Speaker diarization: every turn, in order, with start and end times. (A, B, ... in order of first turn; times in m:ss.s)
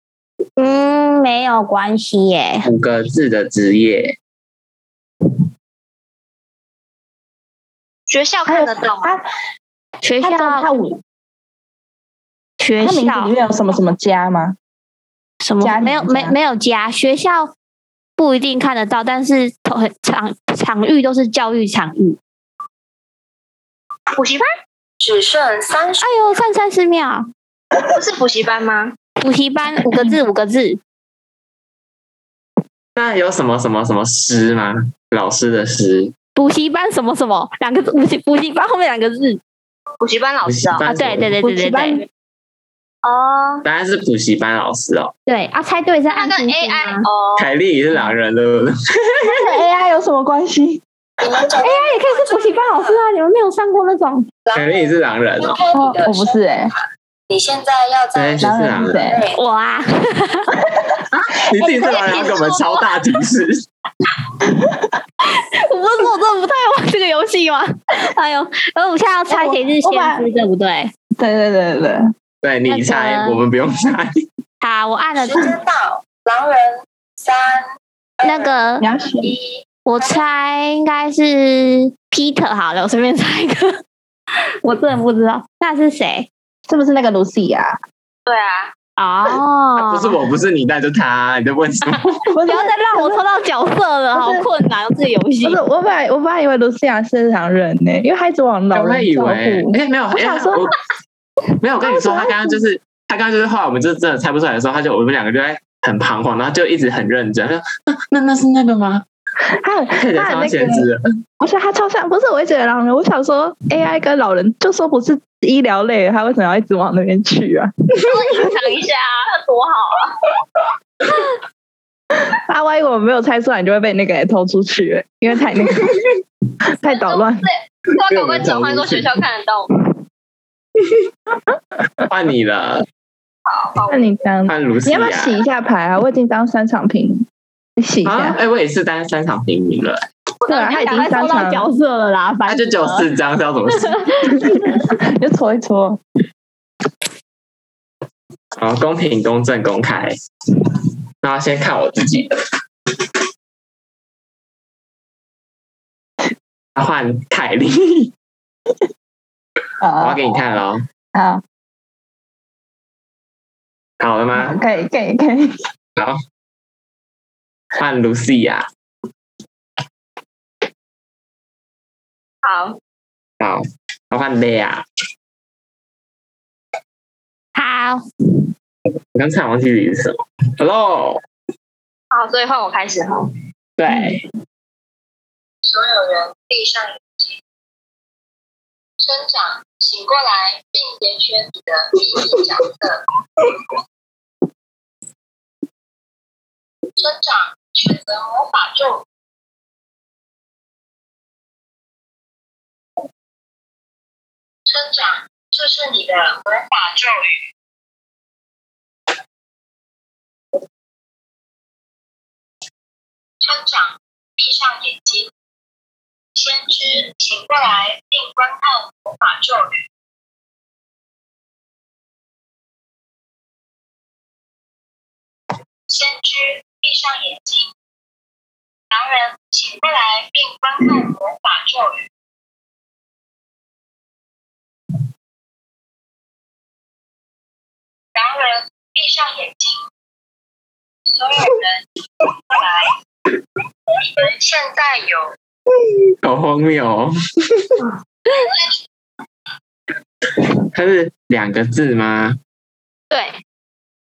0:00.6-0:02.7 A
0:02.6-0:04.2 B
0:08.1-0:09.2 C
0:08.5-0:09.2 D
0:10.0-0:10.7 A
0:10.2-0:11.0 D
0:12.6-0:13.3 A
0:12.8-0:14.6 D
0:15.4-0:17.5 A
0:15.6-0:16.4 D
0:18.2-0:22.2 A
0:24.2-0:24.5 C
0:25.0-0:26.5 E
0:26.0-0:27.3 A
0:27.9-0:29.0 C
0:29.2-0:30.8 A
0:33.0-0:36.1 B
0:36.4-0:39.4 A
0:40.0-0:40.9 C
0:40.4-0:41.3 B
0:40.9-0:42.0 A
0:41.4-0:42.0 D
0:43.0-0:43.6 C
0:43.6-0:45.1 B
0:45.3-0:47.1 A
0:46.1-0:47.5 C
0:47.4-0:49.4 B
0:49.2-0:51.7 D
0:51.2-0:53.0 E
0:51.6-0:54.3 A
0:54.5-0:59.4 E
0:54.5-0:55.6 B
0:55.7-0:56.7 D
0:58.1-0:59.0 B
0:58.4-0:59.2 D
0:59.4-1:00.5 A
1:01.1-1:03.6 B
1:01.6-1:02.2 A
1:01.8-1:03.0 C
1:04.6-1:04.9 D
1:05.2-1:10.9 A
1:09.3-1:10.3 D
1:11.2-1:12.1 D
1:12.4-1:14.2 B
1:12.7-1:13.4 A
1:14.6-1:15.5 A
1:15.2-1:17.7 E
1:18.2-1:18.6 E
1:18.2-1:18.8 A
1:18.8-1:19.3 D
1:19.2-1:20.2 E
1:19.8-1:23.8 A
1:24.6-1:26.3 A
1:26.7-1:27.8 D
1:28.3-1:28.7 C
1:29.0-1:30.2 A
1:29.8-1:32.2 B
1:32.3-1:33.3 D
1:32.4-1:35.6 A
1:34.1-1:34.5 D
1:35.4-1:40.7 D
1:38.7-1:40.8 B
1:41.6-1:49.1 B
1:41.8-1:42.5 D
1:49.5-1:58.2 D
1:50.0-1:51.0 B
1:58.0-2:00.2 C
2:02.3-2:06.0 D
2:06.7-2:07.5 D
2:06.9-2:09.7 C
2:08.1-2:09.2 B
2:12.1-2:12.9 B
2:13.5-2:14.2 C
2:13.9-2:18.4 D
2:14.5-2:15.4 B
2:18.0-2:20.0 B
2:20.4-2:21.2 C
2:20.5-2:21.7 D
2:20.6-2:23.1 A
2:22.5-2:24.1 B
2:23.7-2:24.8 A
2:24.4-2:26.0 D
2:28.6-2:30.2 B
2:31.2-2:32.4 B
2:36.8-2:38.1 B
2:39.8-2:40.2 D
2:40.0-2:40.8 B
2:41.2-2:41.4 D
2:44.0-2:44.6 B
2:44.4-2:45.5 D
2:47.8-2:48.7 B
2:52.4-2:52.8 C
2:53.4-2:54.8 B
2:57.6-2:58.0 A
2:59.2-3:01.2 B
3:02.1-3:03.4 C
3:03.8-3:04.2 B
3:03.9-3:04.2 D
3:05.6-3:07.4 E
3:09.0-3:13.0 E
3:17.0-3:19.0 E
3:24.7-3:27.5 E
3:33.4-3:35.3 E
3:36.4-3:39.8 E
3:45.9-3:47.7 E
3:48.9-3:52.0 E
3:58.2-3:59.8 E
4:01.1-4:01.8 E
4:02.5-4:03.0 E
4:04.2-4:05.3 E
4:06.2-4:07.8 B
4:10.3-4:12.4 B